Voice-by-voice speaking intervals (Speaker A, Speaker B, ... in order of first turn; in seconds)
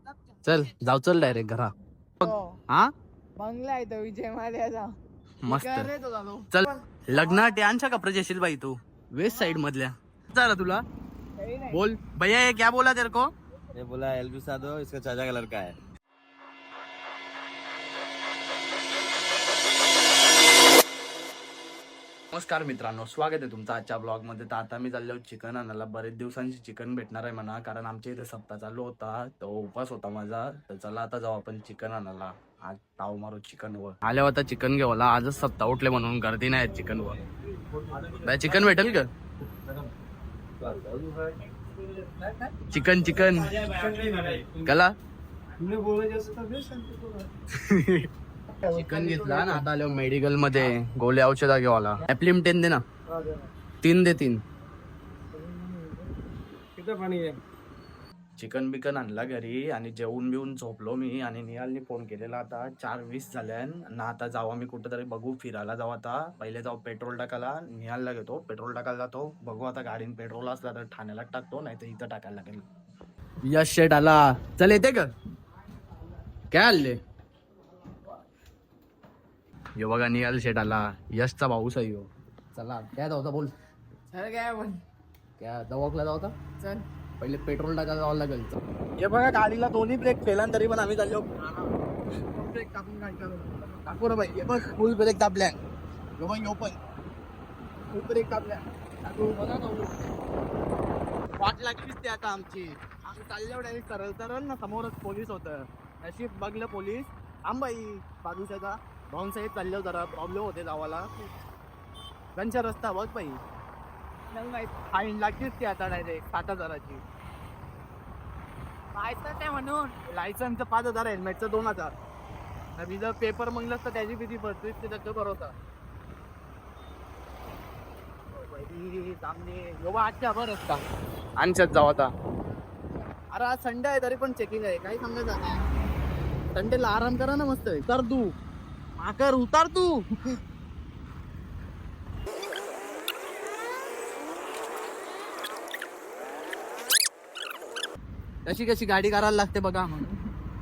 Speaker A: 0.4-2.9, 5.4-5.9, 6.5-10.8, 11.7-13.3, 22.3-37.2, 38.2-39.1, 42.7-44.9, 47.5-48.1, 48.6-52.8, 53.8-54.4, 58.4-72.7, 73.4-75.1, 76.5-77.0, 79.8-83.5, 85.4-86.3, 87.2-91.7, 92.3-95.6, 96.2-96.8, 97.9-100.0, 101.4-111.1, 112.3-113.4, 114.7-117.0, 120.0-121.9, 122.8-125.5, 128.3-130.8, 131.4-132.1, 133.3-135.6, 136.5-138.3, 139.0-140.3, 148.4-150.1
Speaker B: 2.2-2.6, 3.4-4.9, 5.5-6.7, 11.4-11.8, 45.9-46.4, 48.8-49.6, 55.4-55.8, 84.1-84.8, 86.6-86.8, 114.4-114.7, 118.9-120.0
Speaker C: 13.7-15.8, 40.6-41.0